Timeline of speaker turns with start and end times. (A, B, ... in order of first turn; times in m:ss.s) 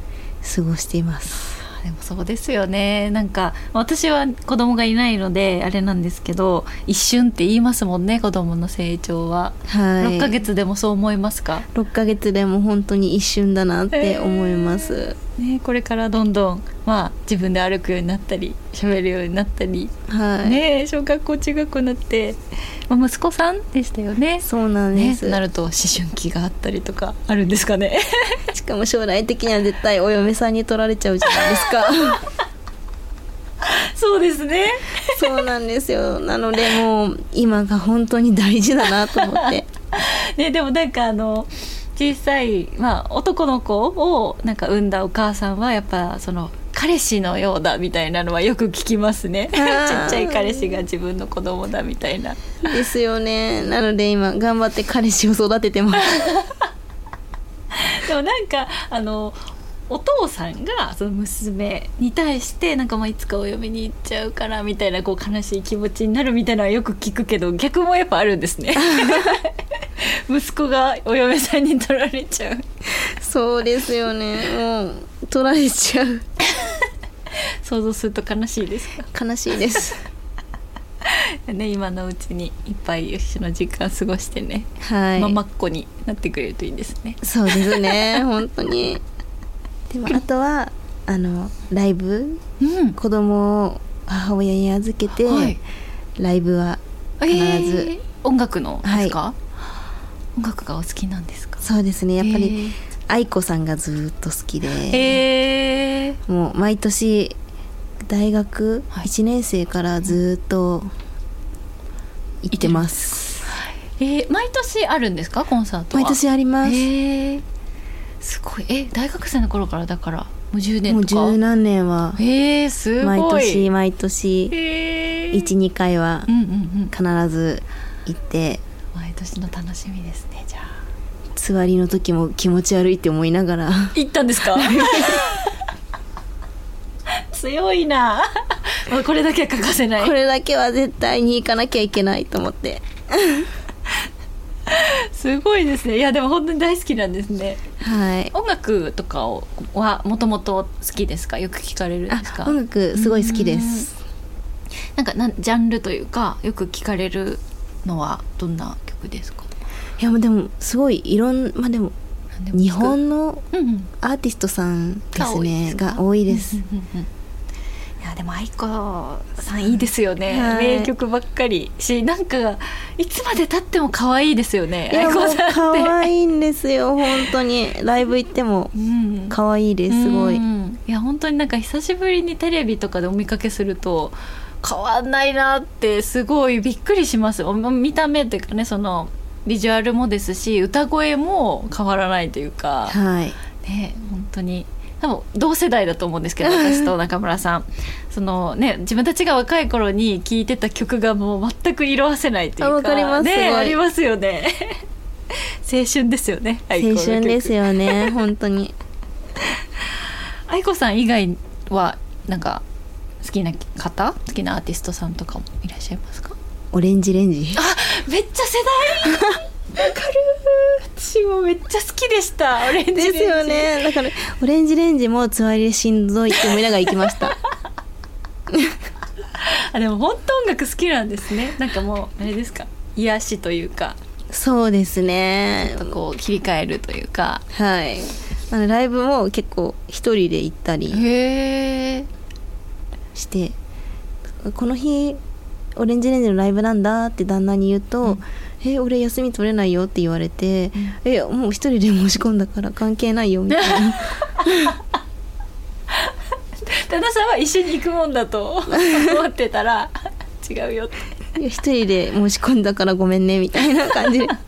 0:00.4-0:01.5 A
0:01.4-0:11.7 B
0:09.7-0:10.4 A
0:11.7-0:15.2 A
0:13.9-0:19.9 B
0:20.1-0:20.6 A
0:20.4-0:22.4 B
0:22.9-0:28.4 B
0:24.4-0:25.4 A
0:28.5-0:32.2 A
0:33.6-0:35.3 B
0:35.1-0:39.7 A
0:39.2-0:52.6 B
0:49.5-0:50.8 A
0:52.6-0:56.2 A
0:56.0-0:56.7 B
0:57.7-0:59.4 B
0:59.9-1:12.7 B
1:08.8-1:09.4 A
1:13.2-1:16.2 A
1:17.6-1:19.1 B
1:19.1-1:20.0 A
1:21.0-1:28.2 B
1:24.8-1:25.4 A
1:27.2-1:29.0 A
1:29.9-1:32.4 A
1:32.6-1:33.0 B
1:33.0-1:35.6 A
1:35.2-1:35.6 B
1:36.2-1:37.9 A
1:37.2-1:39.4 B
1:38.8-1:39.2 A
1:40.4-1:41.6 B
1:41.6-1:45.2 A
1:42.2-1:42.8 B
1:44.8-1:46.2 B
1:46.3-1:47.4 A
1:48.1-1:50.9 A
1:52.4-1:53.5 A
1:52.5-1:57.4 B
1:55.9-1:56.9 A
1:58.2-2:01.4 B
2:00.9-2:02.2 A
2:02.2-2:03.7 B
2:03.0-2:04.6 A
2:04.5-2:05.5 B
2:05.3-2:06.3 A
2:06.3-2:06.9 B
2:06.9-2:08.6 A
2:09.0-2:10.8 B
2:11.4-2:14.0 A
2:13.9-2:15.5 B
2:14.5-2:15.2 A
2:17.3-2:20.1 B
2:20.0-2:23.5 A
2:24.7-2:27.6 B
2:27.8-2:28.3 A
2:28.3-2:33.9 B
2:32.1-2:34.0 A
2:35.0-2:39.5 B
2:40.0-2:41.9 A
2:42.4-2:43.0 B
2:42.5-2:43.4 A
2:43.5-2:43.9 B
2:44.0-2:46.6 A
2:45.2-2:47.1 B
2:48.0-2:56.1 B
2:50.3-2:50.9 A
2:54.9-2:58.7 A
2:58.8-2:59.4 B
2:59.3-3:00.4 A
2:59.9-3:13.0 B
3:12.9-3:13.4 A
3:13.6-3:24.8 B
3:16.4-3:16.9 A
3:22.6-3:23.8 A
3:25.4-3:28.1 B
3:26.8-3:28.7 A
3:30.5-3:32.6 B
3:33.2-3:36.4 B
3:36.7-3:37.6 A
3:37.6-3:43.8 B
3:42.9-3:47.4 A
3:49.4-3:54.0 B
3:54.3-3:56.0 A
3:55.6-3:57.4 B
3:57.5-4:01.0 A
4:00.9-4:02.1 B
4:03.2-4:03.6 A
4:04.4-4:05.2 A
4:05.8-4:14.8 A
4:13.6-4:14.7 B
4:16.7-4:21.0 B
4:18.7-4:19.1 A
4:21.4-4:24.4 A